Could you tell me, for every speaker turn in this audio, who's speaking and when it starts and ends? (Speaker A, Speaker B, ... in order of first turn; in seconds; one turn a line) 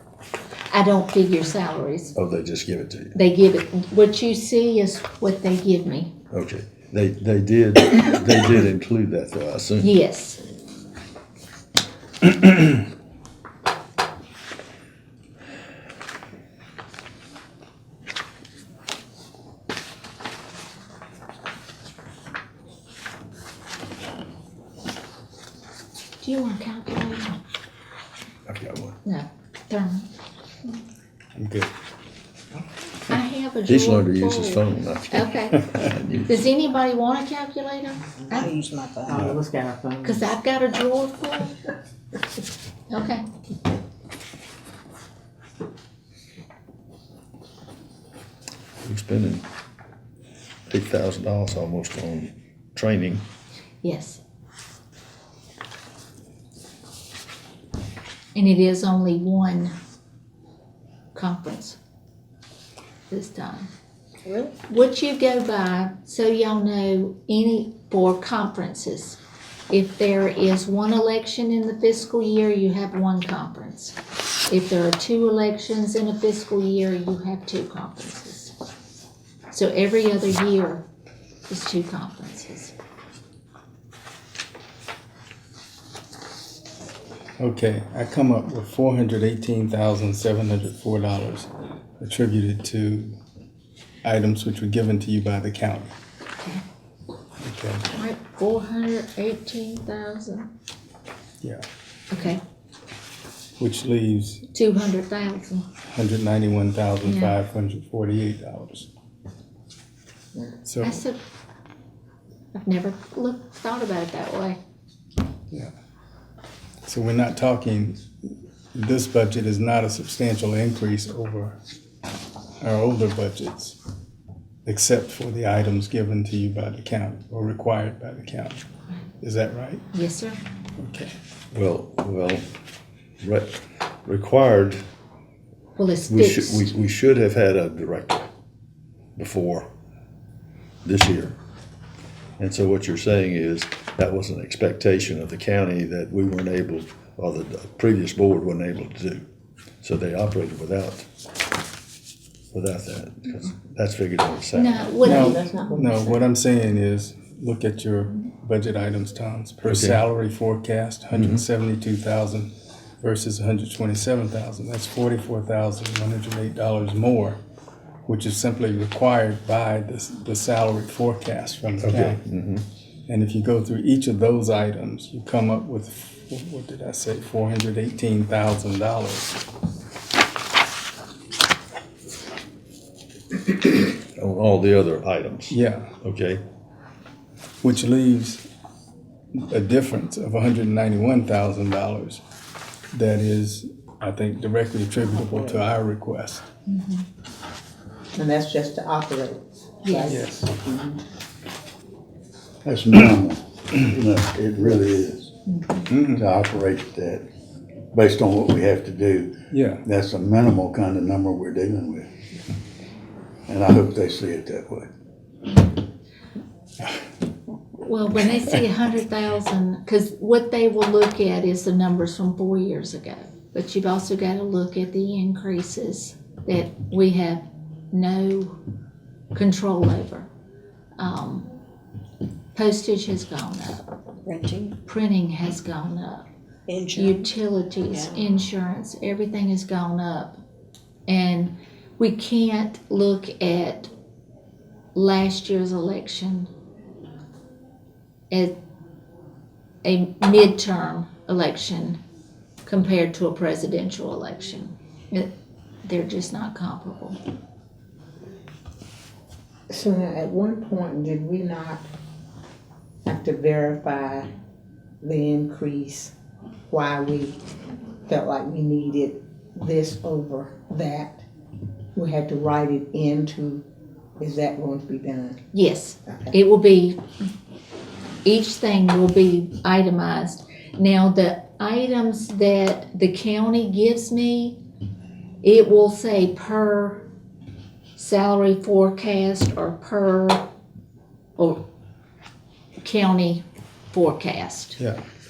Speaker A: 0.7-2.1
Speaker B: 2.1-3.1
Speaker A: 3.1-6.1
Speaker B: 6.3-9.9
Speaker A: 9.8-10.4
Speaker A: 26.2-27.4
Speaker B: 28.5-29.0
Speaker A: 29.0-30.1
Speaker C: 31.4-31.7
Speaker A: 33.1-35.6
Speaker B: 33.6-36.4
Speaker A: 36.3-38.5
Speaker D: 38.4-39.3
Speaker E: 39.0-40.2
Speaker A: 40.0-41.6
Speaker A: 42.9-43.2
Speaker B: 48.8-49.5
Speaker B: 50.7-53.2
Speaker A: 53.8-54.2
Speaker A: 58.3-59.7
Speaker A: 61.1-61.8
Speaker A: 63.1-63.7
Speaker D: 64.3-64.5
Speaker A: 64.7-69.2
Speaker A: 69.7-73.9
Speaker A: 74.5-78.5
Speaker A: 79.5-80.8
Speaker A: 81.5-82.7
Speaker C: 87.4-93.2
Speaker C: 94.0-95.9
Speaker C: 97.4-97.9
Speaker A: 97.9-100.5
Speaker A: 102.1-102.4
Speaker C: 103.6-104.4
Speaker A: 104.5-105.7
Speaker C: 105.9-108.9
Speaker A: 107.0-107.3
Speaker C: 110.6-111.0
Speaker A: 110.8-111.2
Speaker A: 112.5-114.6
Speaker C: 116.8-121.6
Speaker C: 122.6-123.8
Speaker C: 124.6-128.6
Speaker C: 129.2-129.8
Speaker A: 129.9-130.4
Speaker C: 130.8-131.1
Speaker B: 131.5-132.4
Speaker B: 133.2-134.8
Speaker A: 135.8-136.7
Speaker B: 136.1-138.3
Speaker B: 139.2-139.7
Speaker B: 140.8-141.3
Speaker B: 142.4-149.2
Speaker B: 149.8-151.0
Speaker B: 152.5-154.9
Speaker A: 154.5-155.7
Speaker E: 155.0-156.2
Speaker C: 155.0-167.4
Speaker B: 159.6-160.0
Speaker B: 161.1-161.4
Speaker C: 168.1-172.2
Speaker B: 171.8-172.6
Speaker C: 173.1-179.4
Speaker B: 184.2-186.4
Speaker C: 185.5-185.9
Speaker C: 187.6-188.4
Speaker C: 189.3-192.2
Speaker C: 192.9-196.4
Speaker E: 195.0-195.6
Speaker A: 196.7-197.0
Speaker E: 198.2-201.0
Speaker A: 199.8-200.2
Speaker C: 200.1-200.5
Speaker F: 202.6-205.3
Speaker A: 205.5-205.9
Speaker C: 205.9-206.2
Speaker F: 206.1-207.2
Speaker F: 207.9-212.1
Speaker C: 209.5-209.8
Speaker F: 213.5-214.9
Speaker A: 217.8-228.6
Speaker A: 229.3-230.3
Speaker A: 231.0-231.5
Speaker A: 232.5-233.8
Speaker D: 234.2-234.8
Speaker A: 234.8-236.2
Speaker D: 236.7-237.2
Speaker A: 236.9-240.4
Speaker A: 241.1-243.9
Speaker A: 244.9-246.5
Speaker A: 249.8-252.0
Speaker A: 252.6-255.3
Speaker A: 255.8-257.2
Speaker E: 259.7-261.8
Speaker E: 263.0-264.3
Speaker E: 265.0-266.1
Speaker E: 266.7-267.4
Speaker E: 268.1-271.2
Speaker E: 271.9-273.6
Speaker E: 274.2-275.4
Speaker A: 275.5-277.0
Speaker A: 278.2-284.6
Speaker A: 285.4-287.0
Speaker A: 288.0-290.4
Speaker A: 291.4-291.6
Speaker A: 292.8-294.8